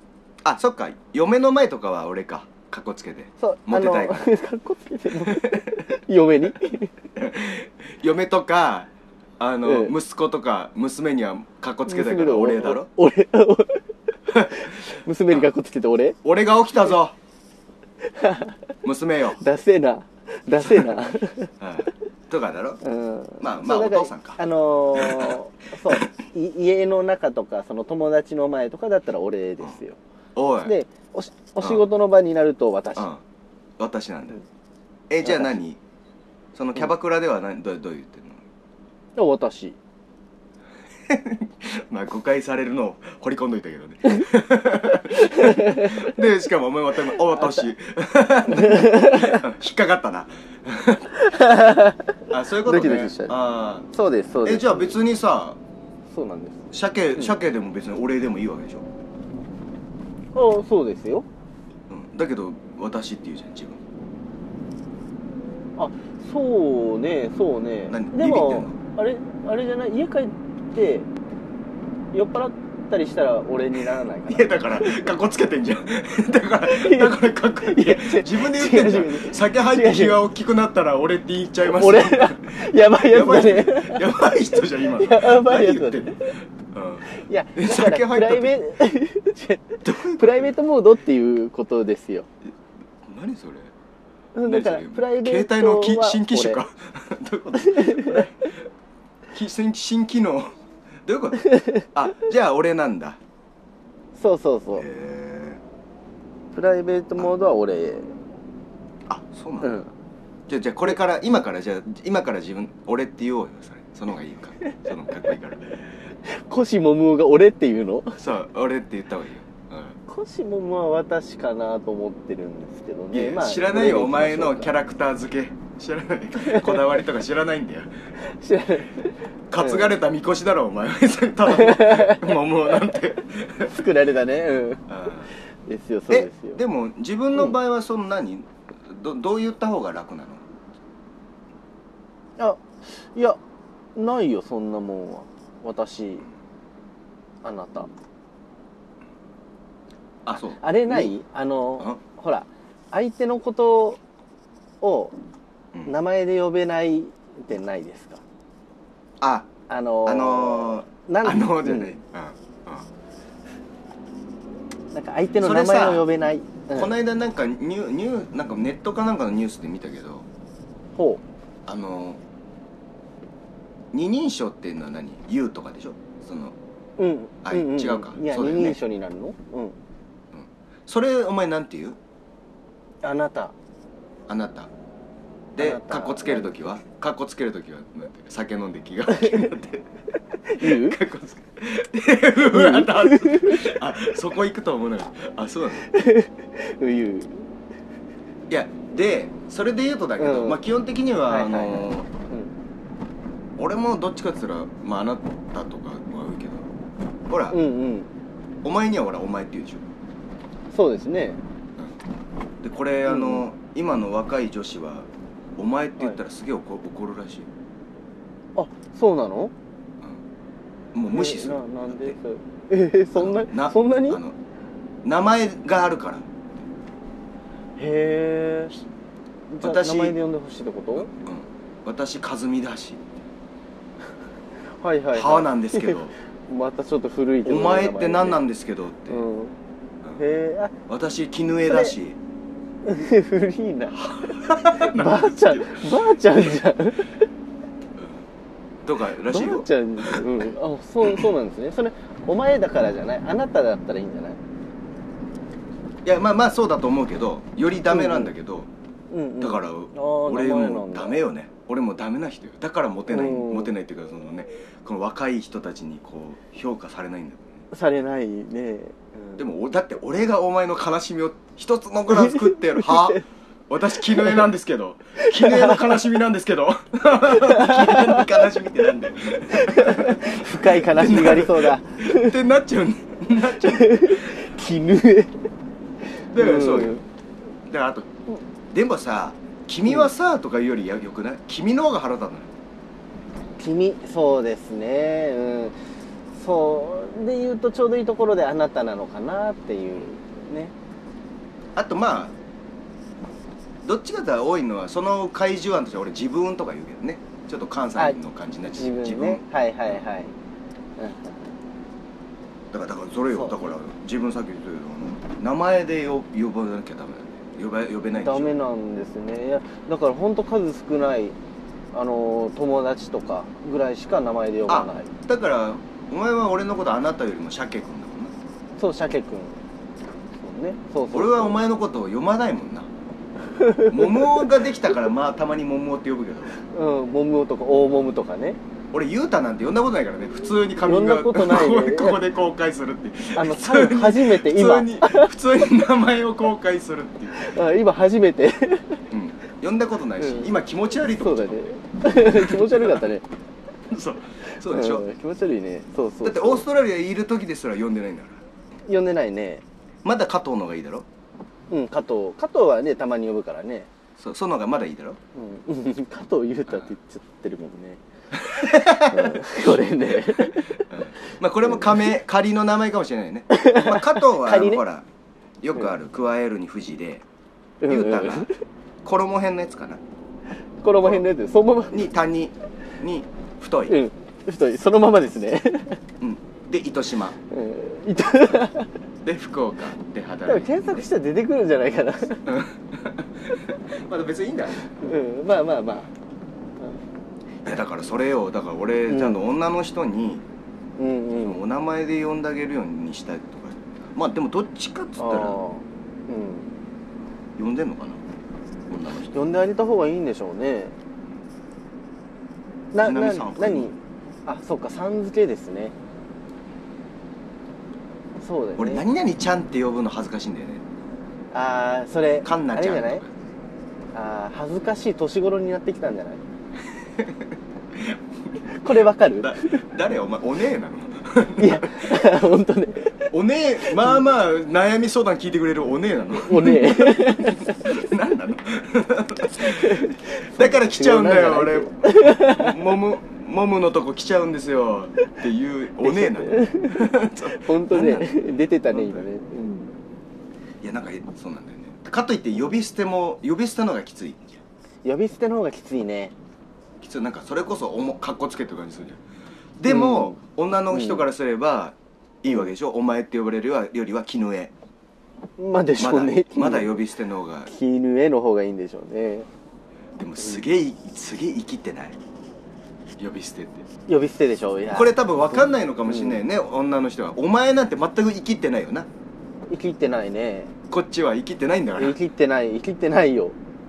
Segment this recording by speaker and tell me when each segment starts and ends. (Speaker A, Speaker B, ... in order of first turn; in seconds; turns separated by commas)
Speaker A: 0.4-4.3, Speaker B: 3.4-6.9, Speaker A: 5.2-5.8, Speaker A: 7.2-12.9, Speaker B: 9.6-9.9, Speaker B: 11.9-13.9, Speaker A: 14.3-14.7, Speaker B: 14.5-16.2, Speaker A: 16.2-17.1, Speaker B: 18.0-18.6, Speaker A: 18.8-19.4, Speaker B: 19.4-21.5, Speaker A: 21.6-22.8, Speaker B: 22.8-30.0, Speaker A: 23.4-24.4, Speaker A: 24.9-25.4, Speaker A: 30.4-30.7, Speaker B: 30.6-33.1, Speaker A: 33.0-33.2, Speaker A: 33.8-34.4, Speaker A: 35.1-35.8, Speaker A: 36.5-38.4, Speaker B: 39.2-39.8, Speaker A: 41.1-51.8, Speaker B: 45.2-46.0, Speaker B: 48.5-49.4, Speaker B: 51.2-53.3, Speaker A: 52.3-53.9, Speaker B: 53.9-55.0, Speaker A: 54.4-55.6, Speaker B: 56.1-56.6, Speaker A: 56.7-58.9, Speaker B: 60.4-61.3, Speaker A: 61.9-63.8, Speaker B: 65.8-71.1, Speaker A: 67.9-68.8, Speaker B: 72.1-75.0, Speaker A: 74.3-88.5, Speaker B: 76.7-80.2, Speaker B: 81.6-84.1, Speaker B: 85.0-86.1, Speaker B: 87.1-92.3, Speaker A: 89.8-90.5, Speaker A: 93.0-93.7, Speaker B: 94.3-96.6, Speaker A: 94.5-98.5, Speaker B: 97.6-98.3, Speaker A: 99.3-100.5, Speaker A: 101.0-103.2, Speaker B: 101.5-101.8, Speaker B: 104.2-104.9, Speaker A: 104.7-105.6, Speaker B: 106.5-108.1, Speaker A: 109.1-109.8, Speaker B: 109.6-109.9, Speaker A: 110.5-115.9, Speaker B: 116.3-118.2, Speaker A: 118.2-120.0, Speaker B: 120.1-124.7, Speaker A: 123.1-127.9, Speaker B: 126.4-126.8, Speaker B: 128.2-130.0, Speaker A: 129.5-133.7, Speaker B: 131.5-132.9, Speaker B: 133.6-134.9, Speaker A: 134.9-135.3, Speaker B: 135.7-136.6, Speaker A: 136.1-140.4, Speaker B: 142.4-143.4, Speaker B: 144.0-146.3, Speaker B: 147.4-147.9, Speaker A: 150.3-151.1, Speaker B: 150.6-154.0, Speaker B: 154.8-155.2, Speaker B: 155.9-158.2, Speaker A: 159.2-159.5, Speaker B: 159.7-161.9, Speaker A: 160.1-162.9, Speaker B: 164.9-166.9, Speaker A: 165.4-166.1, Speaker A: 166.7-170.3, Speaker B: 171.0-171.2, Speaker A: 171.7-172.2, Speaker A: 173.9-176.6, Speaker B: 177.0-179.8, Speaker A: 177.4-178.8, Speaker A: 180.3-182.0, Speaker B: 183.0-183.5, Speaker A: 184.3-184.7, Speaker A: 185.6-189.8, Speaker B: 185.6-186.7, Speaker B: 189.1-189.5, Speaker B: 190.4-191.0, Speaker A: 190.6-195.9, Speaker B: 192.5-193.7, Speaker B: 195.9-197.5, Speaker A: 198.5-202.1, Speaker B: 200.2-200.6, Speaker B: 201.3-202.5, Speaker A: 203.6-206.7, Speaker A: 207.3-207.6, Speaker B: 207.5-208.1, Speaker A: 208.6-209.8, Speaker B: 210.7-211.4, Speaker A: 212.6-217.5, Speaker B: 213.1-213.4, Speaker B: 218.6-219.5, Speaker A: 220.9-222.2, Speaker B: 221.1-224.2, Speaker A: 223.2-224.3, Speaker A: 225.0-226.3, Speaker B: 227.8-228.8, Speaker B: 229.5-231.1, Speaker A: 229.6-230.2, Speaker A: 231.0-233.0, Speaker B: 234.8-238.4, Speaker A: 235.1-236.1, Speaker A: 237.4-239.2, Speaker B: 239.1-239.6, Speaker B: 240.2-240.7, Speaker A: 240.9-242.2, Speaker B: 241.7-241.9, Speaker B: 242.8-247.2, Speaker A: 243.9-246.4, Speaker A: 248.8-250.4, Speaker B: 249.3-254.4, Speaker A: 251.0-251.3, Speaker A: 256.0-258.7, Speaker B: 257.9-258.3, Speaker B: 259.1-261.2, Speaker A: 259.4-267.6, Speaker B: 263.1-263.7, Speaker B: 267.7-269.4, Speaker A: 269.4-284.4, Speaker B: 272.2-273.2, Speaker B: 275.2-276.0, Speaker B: 277.3-278.3, Speaker B: 279.5-282.4, Speaker B: 283.5-285.4, Speaker A: 286.3-287.0, Speaker B: 286.4-287.0, Speaker A: 287.7-288.1, Speaker A: 288.7-292.5, Speaker B: 293.6-295.8, Speaker B: 296.3-300.7, Speaker A: 301.8-302.4, Speaker A: 303.9-309.4, Speaker B: 308.8-310.3, Speaker B: 311.0-311.4, Speaker A: 312.7-318.5, Speaker B: 313.3-313.6, Speaker B: 318.1-321.4, Speaker B: 321.9-325.1, Speaker A: 324.7-328.4, Speaker B: 328.8-329.6, Speaker B: 330.3-331.6, Speaker A: 331.1-332.9, Speaker B: 333.5-334.5, Speaker A: 333.9-336.5, Speaker B: 336.7-338.6, Speaker A: 338.9-347.5, Speaker B: 340.8-342.2, Speaker B: 343.4-345.3, Speaker B: 347.3-349.0, Speaker A: 349.1-351.7, Speaker B: 350.2-350.5, Speaker B: 351.2-353.2, Speaker A: 352.2-353.0, Speaker A: 353.9-355.1, Speaker B: 354.5-356.6, Speaker A: 356.2-358.4, Speaker B: 358.9-359.6, Speaker A: 360.0-361.1, Speaker B: 361.7-363.9, Speaker A: 364.2-365.2, Speaker B: 365.4-368.0, Speaker A: 368.3-375.1, Speaker B: 369.1-370.9, Speaker B: 373.5-374.8, Speaker A: 375.6-377.2, Speaker B: 377.8-378.5, Speaker A: 377.9-378.5, Speaker A: 379.0-380.0, Speaker B: 380.8-382.1, Speaker A: 381.9-384.0, Speaker B: 383.9-386.0, Speaker A: 386.2-387.4, Speaker B: 387.5-388.9, Speaker A: 389.2-391.1, Speaker B: 390.5-392.5, Speaker A: 392.5-395.0, Speaker B: 395.0-396.1, Speaker A: 397.6-400.4, Speaker B: 399.1-399.4, Speaker B: 401.0-401.6, Speaker A: 401.4-405.6, Speaker B: 405.2-406.8, Speaker A: 407.6-408.2, Speaker A: 408.9-409.4, Speaker B: 409.3-411.0, Speaker B: 412.9-415.9, Speaker A: 413.0-413.9, Speaker B: 418.4-419.1, Speaker A: 418.8-420.8, Speaker B: 421.5-423.2, Speaker A: 422.4-423.3, Speaker B: 424.1-426.4, Speaker A: 427.2-428.2, Speaker B: 428.8-429.8, Speaker A: 429.3-432.3, Speaker B: 431.6-433.3, Speaker A: 433.3-449.3, Speaker B: 436.4-437.9, Speaker B: 439.6-442.8, Speaker B: 446.0-449.9, Speaker A: 450.8-454.6, Speaker B: 455.0-456.3, Speaker A: 457.0-459.2, Speaker A: 459.8-464.7, Speaker B: 459.9-460.4, Speaker B: 460.9-461.3, Speaker B: 465.6-467.0, Speaker A: 466.0-467.7, Speaker B: 467.7-469.5, Speaker A: 470.2-472.2, Speaker A: 473.2-473.9, Speaker B: 474.1-476.4, Speaker A: 474.9-479.1, Speaker B: 479.7-480.7, Speaker A: 480.9-482.2, Speaker B: 482.0-483.6